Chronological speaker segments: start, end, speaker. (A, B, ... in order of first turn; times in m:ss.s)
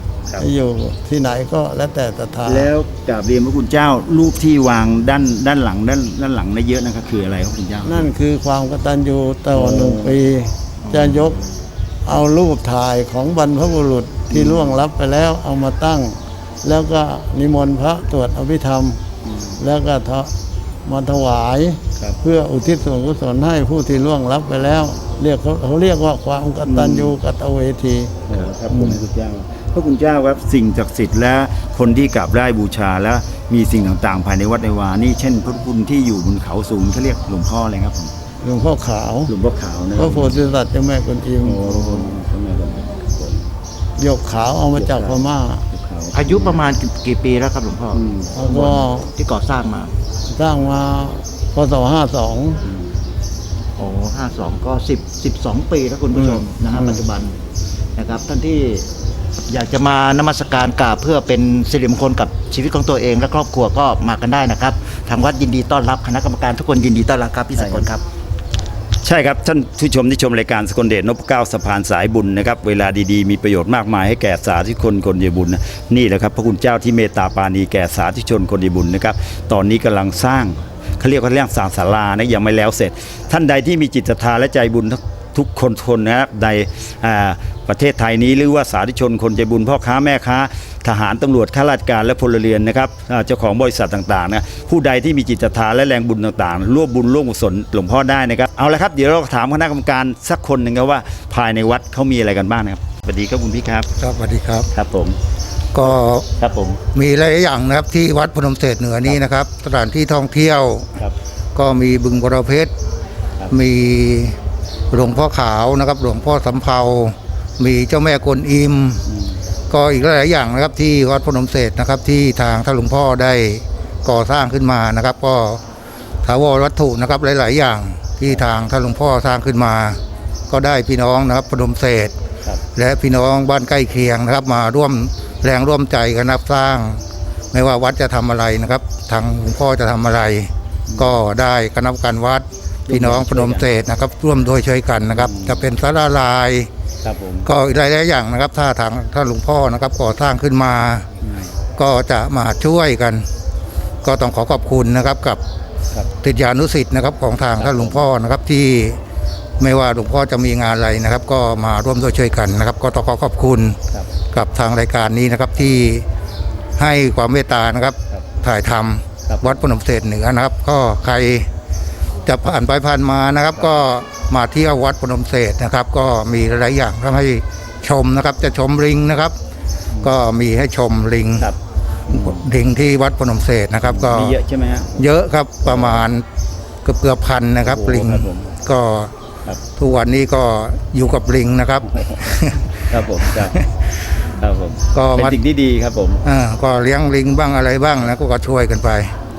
0:00.4-0:02.7 A
0:02.4-0:08.1 B
0:07.8-0:11.4 A
0:09.6-0:10.2 B
0:12.1-0:19.0 A
0:14.3-0:14.7 B
0:19.6-0:20.3 A
0:20.8-0:29.0 A
0:26.6-0:27.1 B
0:28.3-0:38.1 B
0:38.4-0:39.3 A
0:39.3-0:40.4 B
0:40.0-0:42.1 A
0:41.4-0:43.5 B
0:44.0-0:45.6 A
0:44.8-0:46.6 B
0:46.1-0:49.9 C
0:47.9-0:48.4 B
0:48.3-0:49.1 A
0:50.3-0:52.6 A
0:53.8-0:57.4 C
0:56.2-0:57.0 A
0:58.0-0:58.9 C
0:59.5-1:08.0 C
1:09.0-1:43.9 B
1:44.0-1:44.7 D
1:44.7-1:45.2 B
1:45.7-1:46.3 D
1:46.4-1:46.8 B
1:46.9-1:50.9 D
1:51.6-1:52.7 D
1:53.5-1:54.4 D
1:54.9-1:59.0 D
1:59.7-2:05.6 D
2:06.2-2:12.1 D
2:12.7-2:26.7 D
2:20.9-2:21.2 B
2:22.9-2:23.7 B
2:25.1-2:25.7 B
2:27.0-2:27.5 B
2:27.4-2:31.1 D
2:31.2-2:31.5 B
2:31.8-2:33.2 D
2:34.0-2:35.4 D
2:36.2-2:39.0 D
2:37.6-2:38.0 B
2:39.6-2:43.8 D
2:44.3-2:46.0 D
2:46.8-2:51.5 D
2:49.3-2:49.6 B
2:52.2-2:59.4 D
3:00.0-3:01.5 D
3:02.1-3:02.5 B
3:02.1-3:04.4 D
3:03.8-3:05.1 B
3:04.9-3:06.2 D
3:05.6-3:06.1 B
3:06.8-3:09.1 D
3:07.6-3:08.6 B
3:09.8-3:12.6 D
3:12.9-3:13.6 B
3:13.2-3:13.6 D
3:14.4-3:16.2 B
3:14.9-3:15.4 D
3:16.2-3:19.1 D